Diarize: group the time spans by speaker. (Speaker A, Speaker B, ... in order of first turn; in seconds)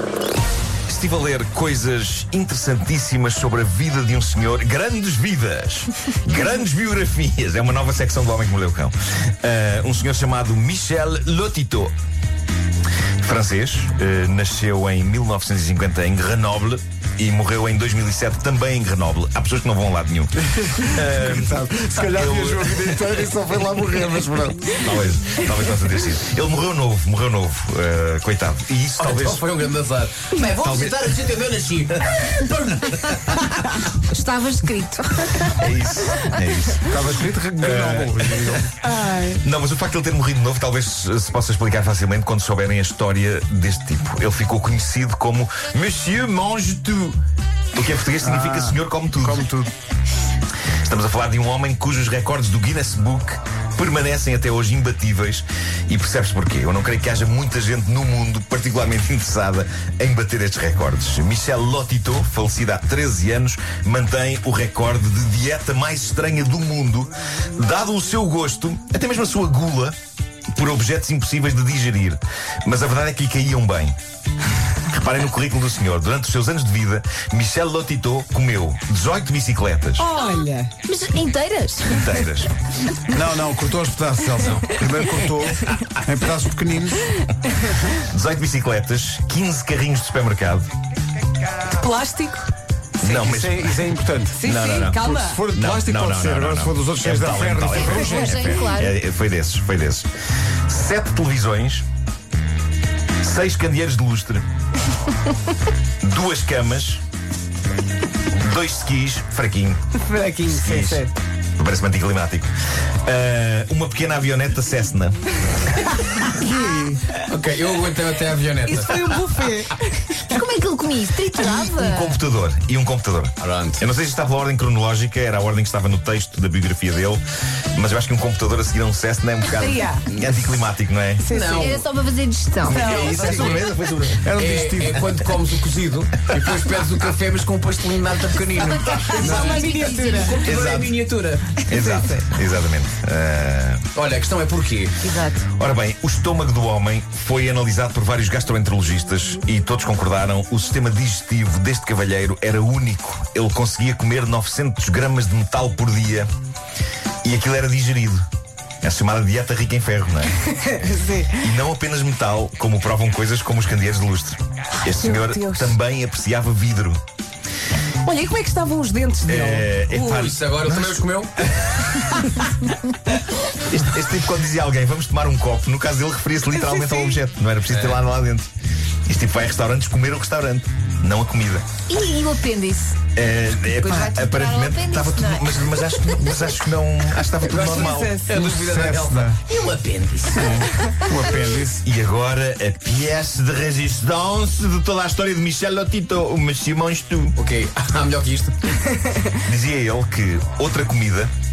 Speaker A: 0.9-11.9, 13.2-23.3, 24.8-29.4, 30.6-31.0, 35.5-37.0, 37.6-47.2, 47.7-49.5, 50.8-70.0, 70.5-74.0, 74.9-80.1, 81.9-82.5, 88.0-90.7, 93.0-93.8, 94.4-100.1, 100.7-101.8, 103.2-104.5, 106.0-107.0, 108.4-109.8, 110.5-112.5, 113.0-115.3, 121.4-127.2, 127.7-131.2, 132.7-134.3, 140.4-140.9, 141.7-143.9, 145.6-156.3, 157.2-158.2, 158.8-160.3, 161.4-167.0, 169.2-171.1, 171.8-172.4, 173.7-178.5, 179.1-181.7, 183.2-188.2, 191.8-197.4, 199.4-201.3
Speaker B: 20.4-24.8, 36.8-38.7, 48.2-49.7, 83.1-87.1, 93.0-98.6, 116.4-116.8, 133.2-133.6, 134.2-135.1, 188.3-189.4, 190.3-191.8
Speaker C: 29.0-33.9, 117.3-119.2, 123.4-123.8, 130.2-130.4, 131.3-131.9, 132.7-133.6, 134.4-141.6, 143.9-144.9, 170.0-171.3, 177.7-178.0, 187.4-190.9, 197.4-199.2
Speaker D: 34.0-35.6, 80.2-82.1, 97.7-99.0, 120.3-122.2, 131.6-132.9, 138.8-139.8, 181.9-183.0, 183.8-186.4
Speaker E: 38.8-39.4, 80.0-80.7, 91.7-92.5, 94.3-95.4, 110.0-111.1, 116.6-116.9, 118.7-120.4, 129.6-130.1, 131.2-131.7, 132.7-133.3, 138.9-140.5, 141.7-142.3, 145.0-145.5, 160.4-161.5, 164.9-165.8, 168.0-170.0, 176.5-177.2, 187.5-188.3